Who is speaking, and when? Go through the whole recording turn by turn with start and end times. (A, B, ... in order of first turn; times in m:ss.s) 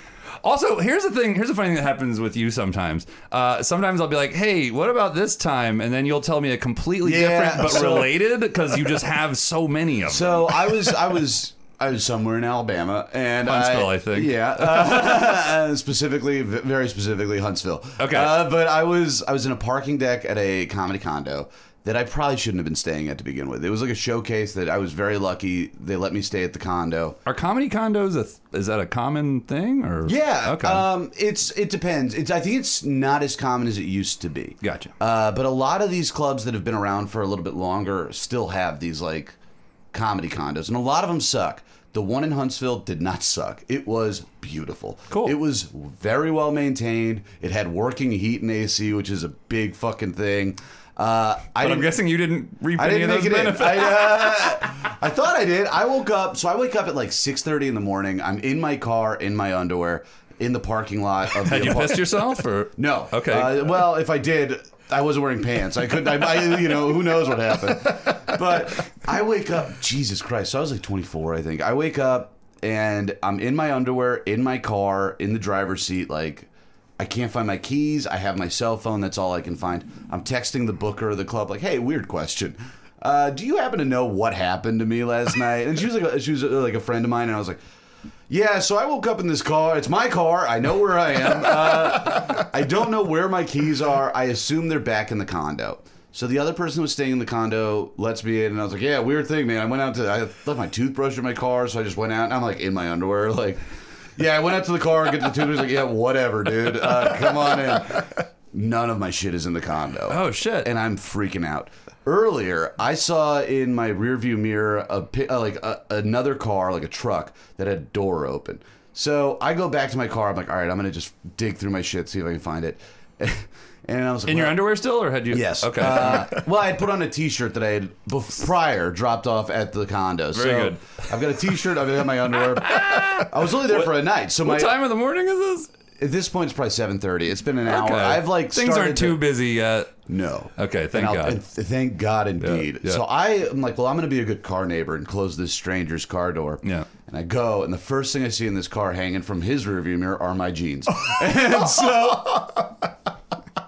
0:00.4-0:10.9 A
0:07.0-0:08.1 B
0:10.0-0:27.2 B
0:13.4-0:15.3 A
0:18.0-0:18.4 A
0:27.2-0:30.8 A
0:30.0-0:39.4 B
0:34.6-0:34.9 A
0:39.9-0:51.9 B
0:45.1-0:45.4 A
0:51.6-0:54.5 A
0:52.7-1:27.6 B
1:01.4-1:03.7 A
1:28.3-1:43.6 B
1:44.2-2:04.7 B
1:50.1-1:50.7 A
2:04.2-2:06.3 A
2:05.3-2:14.8 B
2:10.3-2:11.0 A
2:12.5-2:15.7 A
2:16.0-2:19.2 B
2:17.7-2:20.0 A
2:20.0-2:32.7 B
2:20.6-2:21.4 A
2:22.4-2:23.0 A
2:26.6-2:26.9 A